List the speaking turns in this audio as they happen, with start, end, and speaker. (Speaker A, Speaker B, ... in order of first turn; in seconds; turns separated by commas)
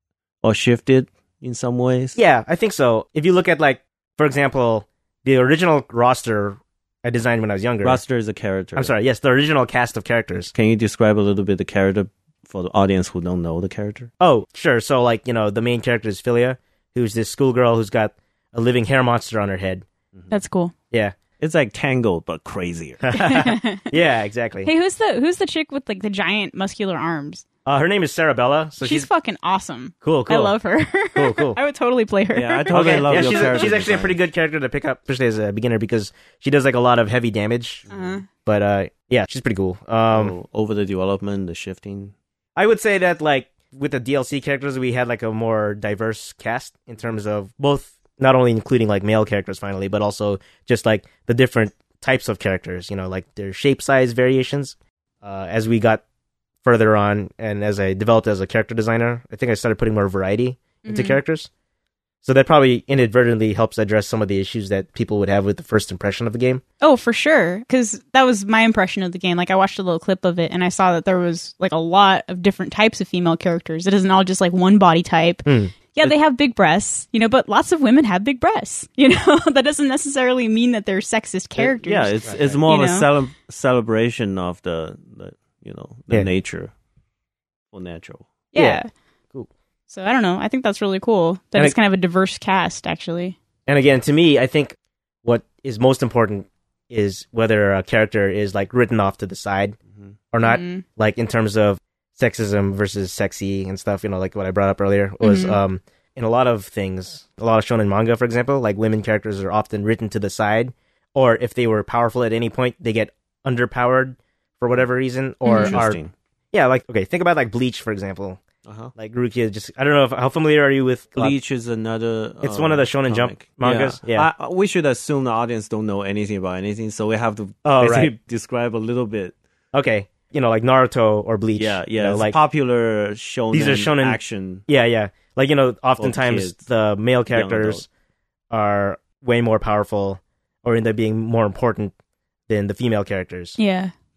Speaker A: 0.4-2.2, Speaker B: 2.2-8.0, Speaker A: 7.8-8.9, Speaker B: 8.8-10.5, Speaker A: 10.5-14.1, Speaker B: 14.2-19.9, Speaker C: 20.3-20.7, Speaker B: 20.9-21.2, Speaker A: 21.4-23.0, Speaker B: 23.0-24.7, Speaker C: 23.1-23.9, Speaker C: 24.6-27.4, Speaker B: 27.7-29.1, Speaker C: 28.8-33.6, Speaker B: 30.0-30.6, Speaker B: 31.1-31.6, Speaker A: 32.3-34.2, Speaker B: 32.7-40.4, Speaker A: 37.9-38.2, Speaker C: 37.9-38.3, Speaker A: 40.1-42.1, Speaker B: 42.6-56.0, Speaker B: 56.6-61.5, Speaker C: 60.8-61.2, Speaker B: 62.2-66.6, Speaker C: 66.8-83.1, Speaker B: 75.5-75.7, Speaker A: 81.6-86.7, Speaker B: 82.2-82.6, Speaker A: 87.7-88.3, Speaker C: 88.5-88.9, Speaker B: 88.6-88.8, Speaker C: 89.9-93.4, Speaker B: 93.7-99.8, Speaker B: 100.3-116.0, Speaker C: 100.4-100.8, Speaker C: 105.2-105.6, Speaker C: 115.5-115.8, Speaker A: 115.6-116.1, Speaker B: 116.5-118.4, Speaker A: 118.7-118.9, Speaker B: 119.0-121.4, Speaker A: 121.2-129.3, Speaker B: 122.4-124.3, Speaker B: 127.6-128.1, Speaker B: 129.7-132.4, Speaker A: 131.6-134.7, Speaker B: 133.5-137.9, Speaker A: 136.0-136.6, Speaker A: 137.3-137.8, Speaker B: 138.5-141.9, Speaker B: 142.5-143.6, Speaker C: 143.6-143.9